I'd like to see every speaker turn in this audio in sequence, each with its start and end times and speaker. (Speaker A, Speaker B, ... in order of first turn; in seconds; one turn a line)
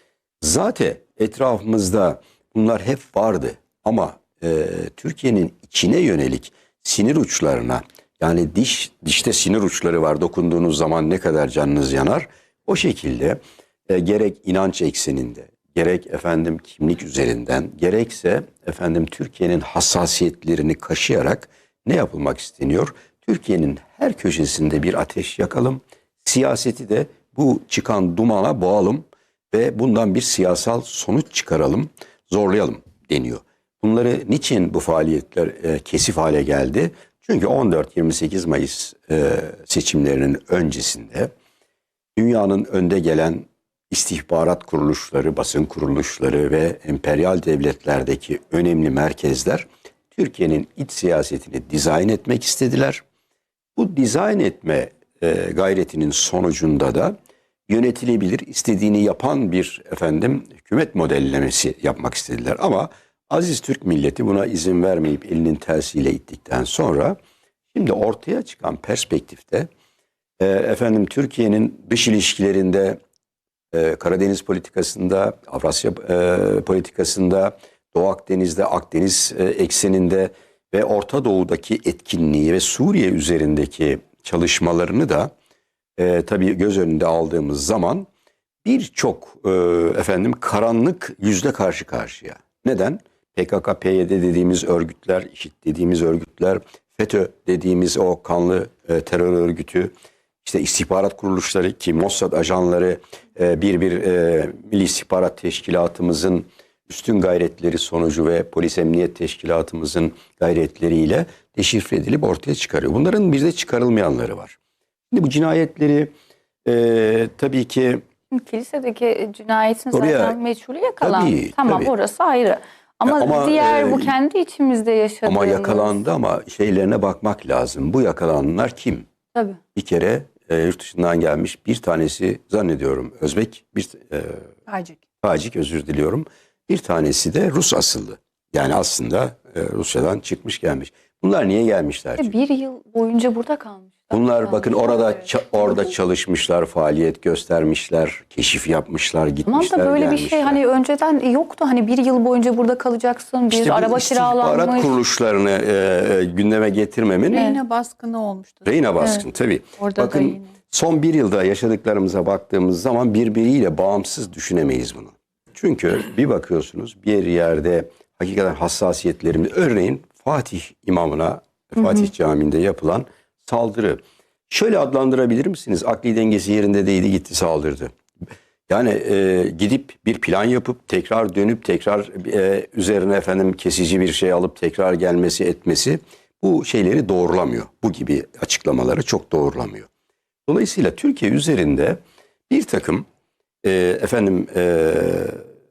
Speaker A: 0.4-41.3
Speaker A: 42.1-53.0
Speaker A: 53.8-57.1
Speaker A: 57.7-67.2
Speaker A: 67.7-69.7
Speaker A: 70.4-73.0
Speaker A: 73.7-85.3
Speaker A: 86.0-88.1
Speaker A: 88.6-99.9
Speaker A: 100.4-114.6
Speaker A: 115.1-116.1
Speaker A: 116.6-118.0
Speaker B: 118.3-126.0
Speaker A: 119.9-120.3
Speaker A: 121.0-121.9
Speaker A: 123.0-124.1
Speaker A: 125.2-129.1
Speaker B: 129.3-129.6
Speaker A: 129.7-134.5
Speaker B: 134.7-134.9
Speaker A: 135.2-142.3
Speaker B: 142.2-145.9
Speaker A: 144.1-150.6
Speaker B: 149.4-154.9
Speaker A: 153.5-157.5
Speaker B: 157.3-157.6
Speaker C: 157.3-158.7
Speaker A: 158.6-177.9
Speaker C: 159.8-160.4
Speaker A: 178.7-189.9
Speaker A: 190.5-193.1
Speaker A: 193.6-195.4